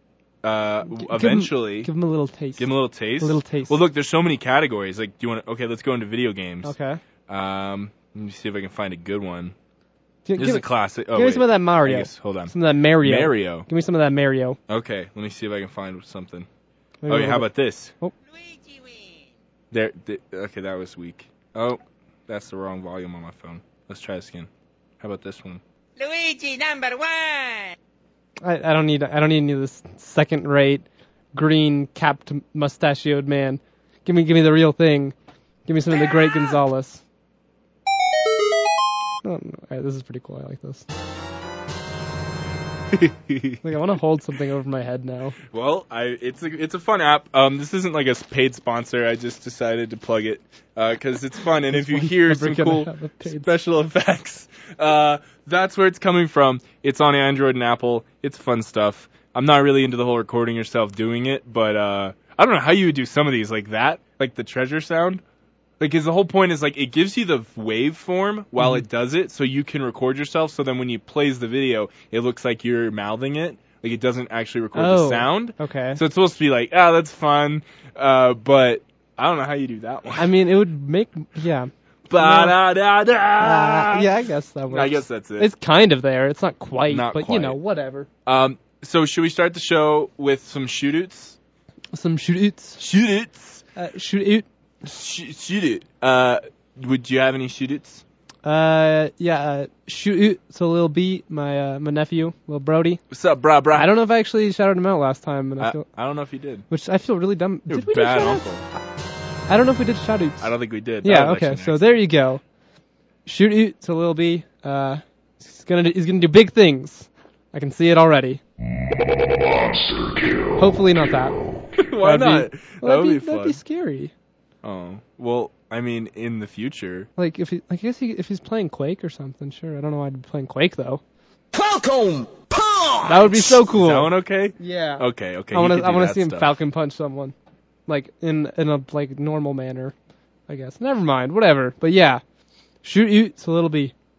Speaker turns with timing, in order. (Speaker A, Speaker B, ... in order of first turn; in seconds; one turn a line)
Speaker A: 0.4-1.9
Speaker B: 0.9-2.7
Speaker A: 2.6-6.7
Speaker B: 3.2-3.8
Speaker B: 6.6-7.0
Speaker A: 7.3-9.5
Speaker B: 10.2-14.6
Speaker A: 10.4-13.7
Speaker A: 14.7-16.5
Speaker B: 17.0-17.5
Speaker A: 17.1-17.9
Speaker C: 18.2-19.3
Speaker A: 19.7-24.5
Speaker A: 25.0-25.6
Speaker C: 26.0-27.8
Speaker B: 28.4-35.1
Speaker B: 35.7-37.0
Speaker B: 39.2-40.9
Speaker A: 42.9-43.6
Speaker B: 43.6-45.4
Speaker A: 45.5-65.2
Speaker B: 51.7-53.5
Speaker A: 65.8-80.3
Speaker B: 68.6-68.8
Speaker B: 74.7-76.0
Speaker B: 80.2-82.5
Speaker A: 82.1-84.1
Speaker B: 83.4-88.1
Speaker A: 84.7-85.5
Speaker A: 86.9-87.5
Speaker A: 88.2-91.4
Speaker B: 91.9-92.8
Speaker A: 92.8-93.6
Speaker B: 93.8-94.5
Speaker A: 94.8-98.0
Speaker B: 98.4-103.0
Speaker A: 103.1-103.9
Speaker B: 103.7-105.8
Speaker A: 105.6-106.6
Speaker B: 106.7-108.6
Speaker A: 107.7-108.6
Speaker B: 109.5-110.5
Speaker A: 110.4-111.9
Speaker B: 111.0-112.4
Speaker B: 113.2-118.4
Speaker B: 120.5-121.3
Speaker A: 121.8-123.6
Speaker B: 122.0-124.1
Speaker A: 124.6-127.1
Speaker B: 127.2-131.0
Speaker A: 131.5-136.5
Speaker B: 133.0-137.3
Speaker B: 137.9-139.9
Speaker B: 140.5-142.2
Speaker B: 142.8-143.9